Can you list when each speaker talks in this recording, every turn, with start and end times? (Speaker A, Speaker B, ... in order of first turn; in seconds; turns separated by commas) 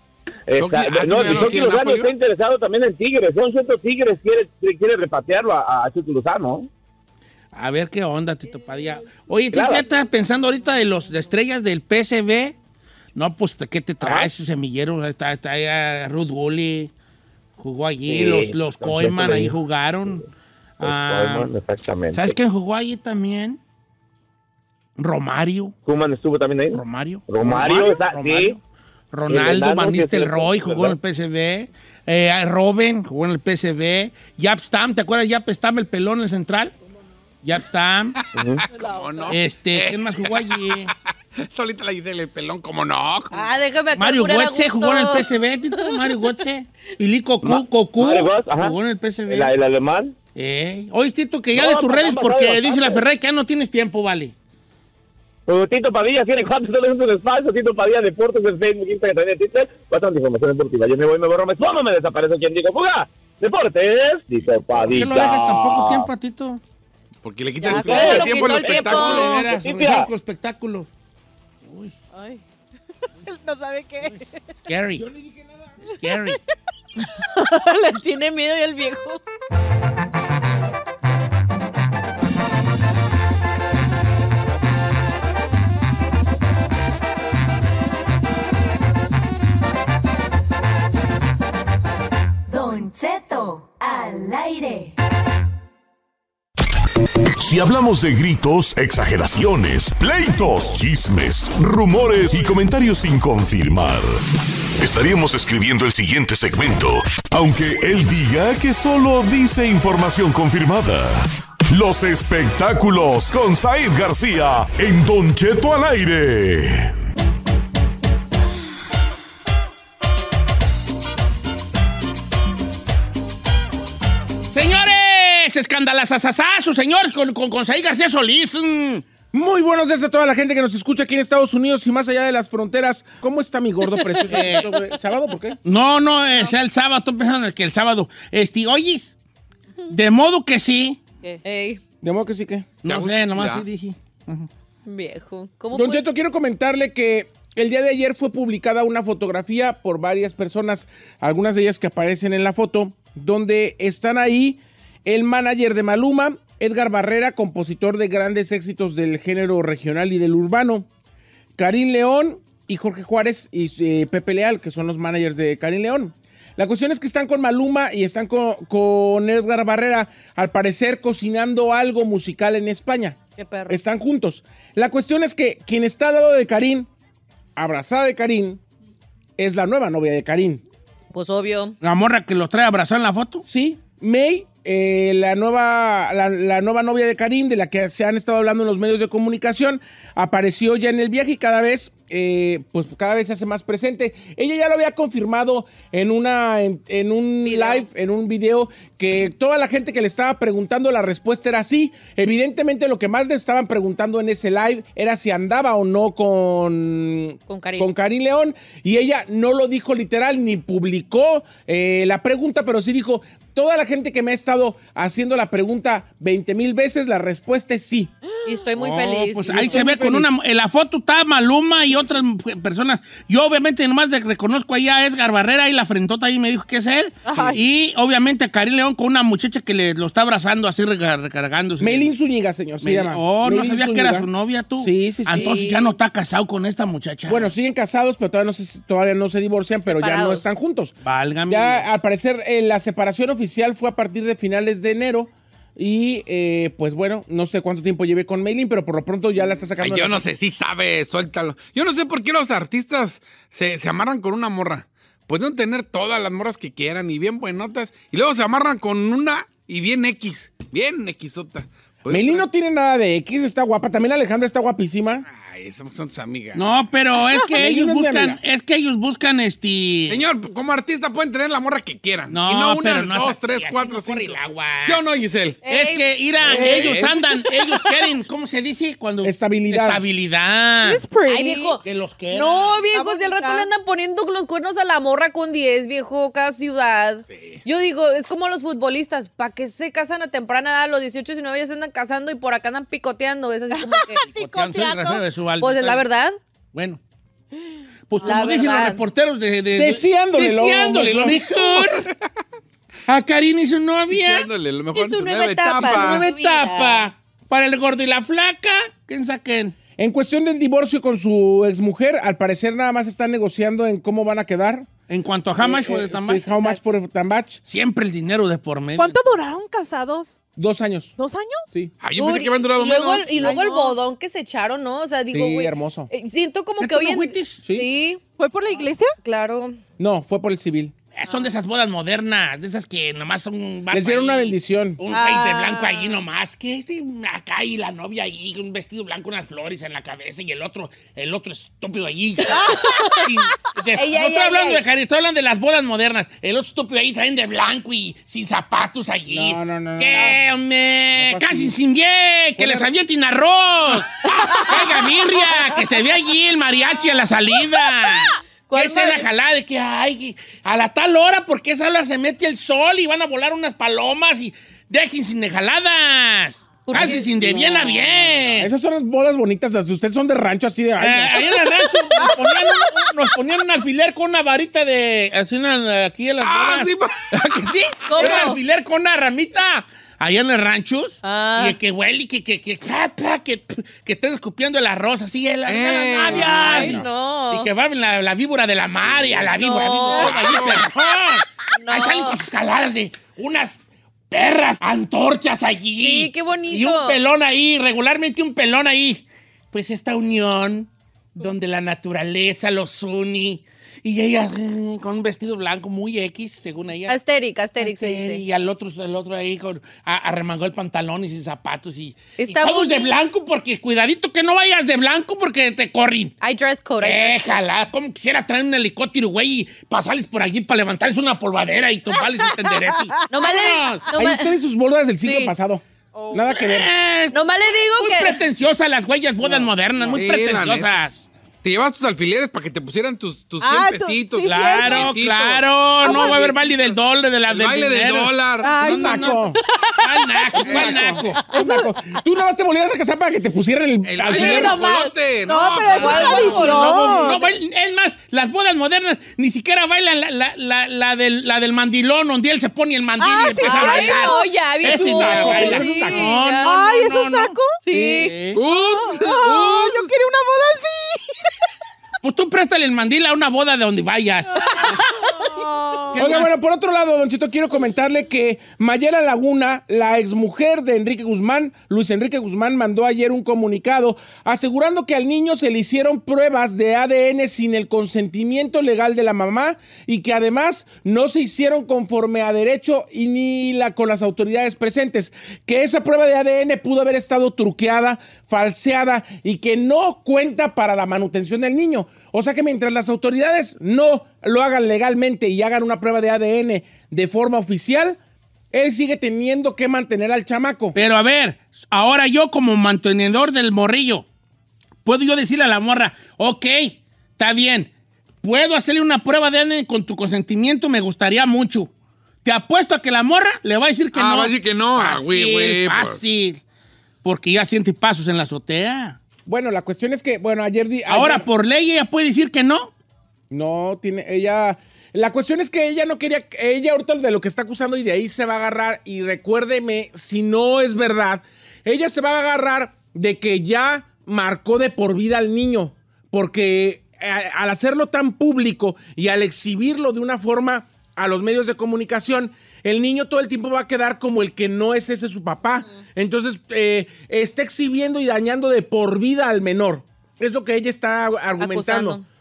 Speaker A: 0.5-6.7, Speaker B: 0.6-2.1, Speaker C: 1.2-1.5, Speaker C: 7.5-12.5, Speaker A: 9.5-9.8, Speaker C: 13.2-16.9, Speaker A: 14.0-14.3, Speaker C: 17.6-20.2, Speaker A: 18.1-19.5, Speaker C: 20.8-21.5, Speaker A: 20.8-22.4, Speaker C: 22.1-23.6, Speaker C: 25.0-25.7, Speaker A: 25.8-28.6, Speaker C: 26.7-28.6, Speaker C: 29.1-36.7, Speaker A: 29.3-31.0, Speaker C: 37.4-38.1, Speaker B: 38.2-40.6, Speaker A: 38.4-38.6, Speaker D: 38.7-39.4, Speaker C: 39.3-40.9, Speaker B: 41.4-43.3, Speaker E: 43.3-45.9, Speaker C: 44.0-49.5, Speaker A: 47.4-48.7, Speaker A: 49.3-50.1, Speaker C: 50.4-54.3, Speaker A: 51.5-53.0, Speaker A: 55.5-66.1, Speaker C: 64.8-66.6, Speaker B: 67.2-69.5, Speaker D: 67.6-68.0, Speaker A: 67.7-70.1, Speaker E: 67.8-69.3, Speaker C: 67.8-70.9, Speaker C: 71.7-71.9, Speaker D: 72.1-72.4, Speaker D: 73.2-74.5, Speaker C: 74.1-75.0, Speaker F: 75.0-75.3, Speaker C: 75.8-76.4, Speaker E: 77.0-79.2, Speaker G: 92.5-94.9, Speaker H: 97.3-104.2, Speaker H: 104.8-116.9, Speaker C: 124.5-129.0, Speaker F: 129.3-135.6, Speaker E: 134.2-134.7, Speaker C: 134.3-134.7, Speaker C: 135.6-139.1, Speaker C: 139.9-141.0, Speaker E: 141.4-141.8, Speaker F: 142.0-142.7, Speaker C: 142.8-144.5, Speaker B: 142.9-143.6, Speaker E: 144.8-146.0, Speaker F: 145.7-160.9, Speaker F: 161.6-176.9, Speaker E: 173.4-173.8, Speaker F: 177.6-178.6, Speaker F: 179.4-180.6, Speaker E: 181.1-181.8, Speaker C: 181.8-183.4, Speaker F: 183.4-218.1, Speaker E: 197.4-197.9, Speaker E: 207.5-207.9, Speaker E: 218.4-219.9, Speaker C: 218.8-232.1, Speaker F: 219.4-220.3, Speaker D: 227.2-227.6, Speaker F: 231.8-234.3, Speaker C: 232.8-237.5, Speaker F: 234.8-235.6, Speaker E: 235.3-235.9, Speaker F: 237.3-240.9, Speaker E: 239.9-240.4, Speaker C: 241.0-241.9, Speaker F: 241.5-250.3, Speaker B: 249.8-262.4, Speaker F: 262.1-265.2, Speaker B: 265.3-266.6, Speaker C: 266.5-270.2, Speaker F: 267.5-268.4, Speaker B: 270.1-275.6, Speaker C: 272.3-275.0, Speaker E: 275.6-276.1, Speaker C: 275.6-281.0, Speaker F: 276.4-277.1, Speaker B: 276.6-277.0, Speaker E: 277.4-277.7, Speaker F: 279.2-280.0, Speaker D: 280.8-281.8, Speaker E: 281.2-294.2, Speaker C: 281.8-282.9, Speaker D: 282.9-283.7, Speaker B: 287.3-287.6, Speaker D: 293.7-295.2, Speaker C: 294.2-296.0, Speaker E: 295.6-296.4, Speaker C: 296.7-297.0, Speaker C: 298.1-302.1, Speaker E: 298.2-299.0, Speaker D: 298.2-298.7, Speaker F: 299.8-301.5, Speaker C: 303.1-304.5, Speaker B: 304.1-306.2, Speaker E: 304.9-307.1, Speaker C: 305.8-309.7, Speaker F: 310.0-314.9, Speaker C: 315.1-316.4, Speaker F: 315.6-317.6, Speaker C: 317.7-319.2, Speaker D: 318.9-320.4, Speaker F: 320.6-321.1, Speaker D: 321.2-321.6, Speaker B: 322.0-323.6, Speaker E: 322.1-328.2, Speaker D: 323.4-324.0, Speaker F: 325.3-326.1, Speaker C: 326.8-327.6, Speaker D: 328.4-329.1, Speaker E: 329.2-329.8, Speaker F: 330.0-330.9, Speaker C: 331.1-368.7, Speaker F: 333.9-335.0, Speaker D: 335.1-336.1, Speaker E: 342.5-343.3, Speaker D: 342.5-343.0, Speaker E: 343.9-344.8, Speaker F: 349.3-350.4, Speaker F: 351.2-351.7, Speaker F: 352.6-352.9, Speaker E: 354.5-354.8, Speaker E: 358.7-359.2, Speaker E: 366.9-367.7, Speaker F: 366.9-368.0, Speaker F: 368.6-371.4, Speaker C: 371.0-393.8, Speaker B: 376.4-377.6, Speaker E: 378.1-378.6, Speaker E: 381.2-381.8, Speaker B: 385.6-387.1, Speaker E: 386.3-387.7, Speaker B: 389.1-389.4, Speaker E: 389.6-390.4, Speaker B: 390.1-390.9, Speaker E: 391.7-392.4, Speaker C: 394.3-407.1, Speaker E: 396.0-397.2, Speaker E: 407.1-408.4, Speaker C: 407.8-416.3, Speaker E: 412.4-413.1, Speaker E: 416.4-417.5, Speaker C: 417.0-424.0, Speaker D: 422.7-423.3, Speaker E: 423.3-424.6, Speaker F: 424.2-426.9, Speaker E: 425.2-425.5, Speaker D: 426.1-426.6, Speaker C: 426.6-427.4, Speaker E: 427.3-428.4, Speaker C: 428.0-431.3, Speaker F: 429.4-430.2, Speaker B: 430.1-430.9, Speaker B: 431.6-436.9, Speaker D: 433.6-435.1, Speaker C: 434.4-439.4, Speaker D: 436.0-436.5, Speaker B: 437.5-438.8, Speaker D: 438.6-439.5, Speaker F: 438.8-439.6, Speaker E: 439.7-440.4, Speaker C: 440.0-441.4, Speaker B: 440.6-440.9, Speaker F: 440.7-444.8, Speaker D: 441.5-441.9, Speaker B: 444.0-446.8, Speaker E: 444.2-445.1, Speaker D: 445.4-447.5, Speaker E: 445.9-447.4, Speaker C: 445.9-457.6, Speaker D: 453.2-454.5, Speaker E: 453.6-456.8, Speaker F: 454.9-456.2, Speaker D: 455.3-457.8, Speaker E: 457.8-458.4, Speaker F: 457.9-458.3, Speaker C: 458.1-458.6, Speaker B: 458.5-460.1, Speaker D: 458.7-461.4, Speaker C: 462.2-464.9, Speaker D: 464.6-466.3, Speaker E: 464.7-465.3, Speaker C: 466.1-466.5, Speaker F: 466.2-498.2, Speaker F: 498.7-500.9, Speaker C: 500.9-504.2, Speaker C: 505.0-507.9, Speaker C: 508.4-511.9, Speaker C: 512.4-516.6, Speaker B: 514.1-516.2, Speaker C: 517.2-519.2, Speaker F: 519.5-521.4, Speaker C: 521.1-522.9, Speaker F: 523.5-552.2, Speaker E: 551.6-552.2